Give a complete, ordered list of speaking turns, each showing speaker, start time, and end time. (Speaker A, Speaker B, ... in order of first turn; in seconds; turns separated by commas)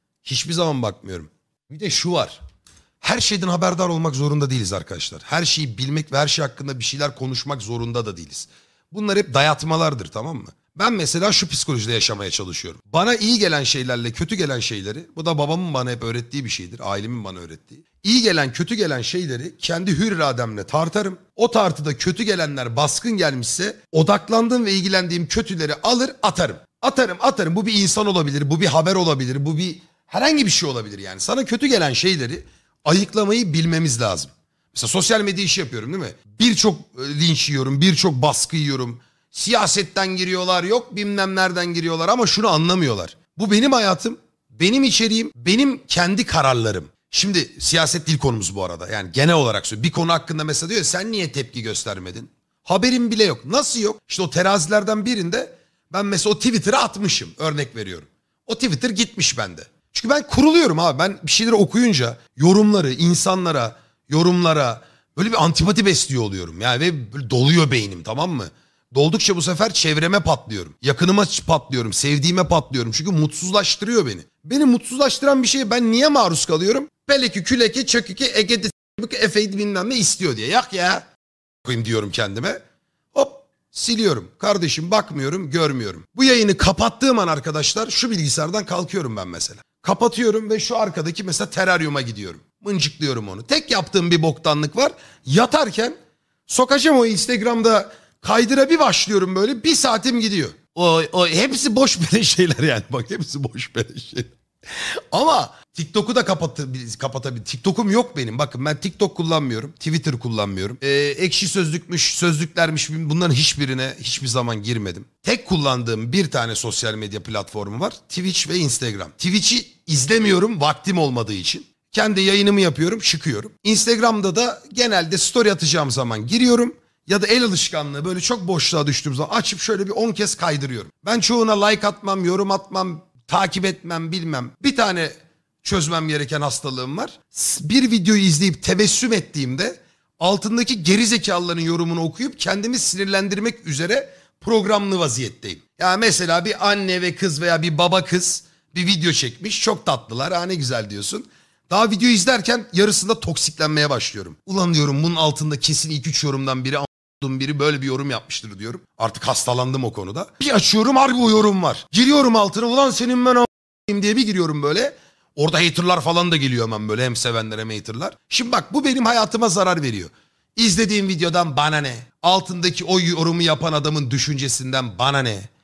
Speaker A: 0.2-2.4, Speaker A: 3.0-81.0, Speaker A: 81.6-82.6, Speaker A: 83.1-175.5